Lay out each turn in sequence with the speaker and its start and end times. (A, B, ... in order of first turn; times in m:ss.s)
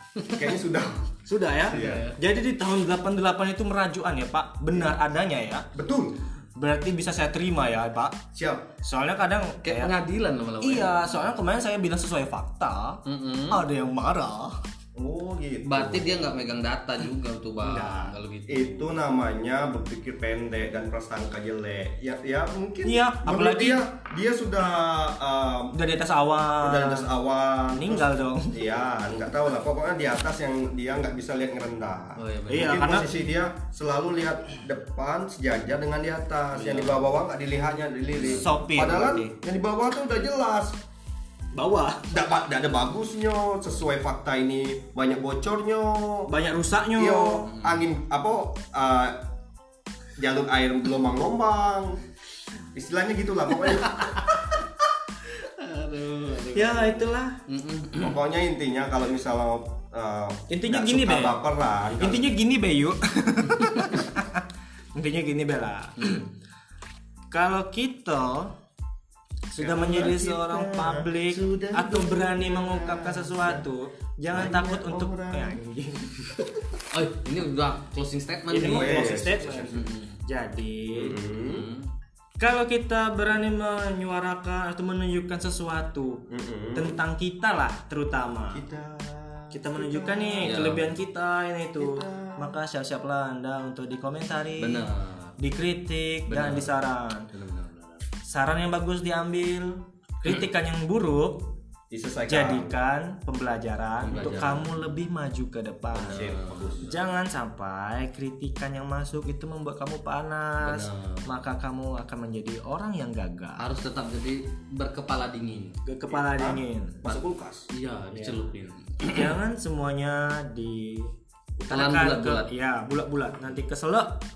0:00.2-0:00.5 A
0:00.3-0:01.0 B
0:01.3-0:05.7 C
0:01.7-0:02.1 B
0:01.7-0:02.2 A
0:05.7-0:06.2 B
0:06.6-0:08.2 C
0:08.3-0:08.7 B
0:08.8-0:09.9 C
0:09.6-0:11.0 A
0:10.6-0:14.6 C
0:13.1-0:13.6 A
0:15.0-0:16.5 B
0:15.6-0:18.9 A
0:17.6-0:18.2 C
0:18.5-0:25.8 B
0:22.8-0:23.8 C
0:25.7-0:27.1 C
0:26.6-0:40.8 B
0:27.7-0:28.6 C
0:32.2-0:32.9 A
0:32.5-0:33.2 C
0:36.5-0:37.2 A
0:38.1-0:38.5 A
0:38.3-0:39.3 C
0:41.6-0:42.1 C
0:42.1-0:46.3 B
0:46.3-0:47.5 C
0:47.0-0:49.2 B
0:47.4-0:47.8 A
0:50.2-0:52.0 B
0:52.7-0:54.2 B
0:53.7-0:54.4 A
0:55.3-0:58.2 A
0:56.5-0:57.4 C
0:58.0-1:02.4 B
1:00.5-1:01.4 C
1:02.0-1:04.4 C
1:05.0-1:06.3 C
1:07.3-1:08.5 C
1:09.5-1:16.6 C
1:09.6-1:13.7 B
1:14.3-1:15.6 B
1:16.9-1:19.1 A
1:18.5-1:21.2 C
1:18.6-1:19.9 B
1:19.7-1:20.2 A
1:20.9-1:21.7 B
1:21.4-1:21.9 A
1:22.4-1:26.2 C
1:26.3-1:27.0 B
1:26.8-1:28.6 C
1:28.5-1:30.8 B
1:29.5-1:34.9 C
1:30.4-1:31.0 A
1:31.8-1:32.5 B
1:34.6-1:35.4 A
1:35.4-1:37.3 C
1:36.3-1:36.8 A
1:37.3-1:38.0 A
1:38.3-1:41.4 C
1:41.9-1:42.8 B
1:42.3-1:46.3 C
1:44.0-1:44.7 A
1:45.9-1:46.9 A
1:46.1-1:47.0 B
1:46.8-1:53.7 C
1:50.6-1:51.3 A
1:53.6-1:55.8 A
1:55.8-1:57.0 C
1:56.1-1:57.7 B
1:57.7-1:59.3 A
1:58.1-1:58.4 C
1:59.1-2:01.1 C
2:01.6-2:04.2 C
2:01.7-2:02.5 A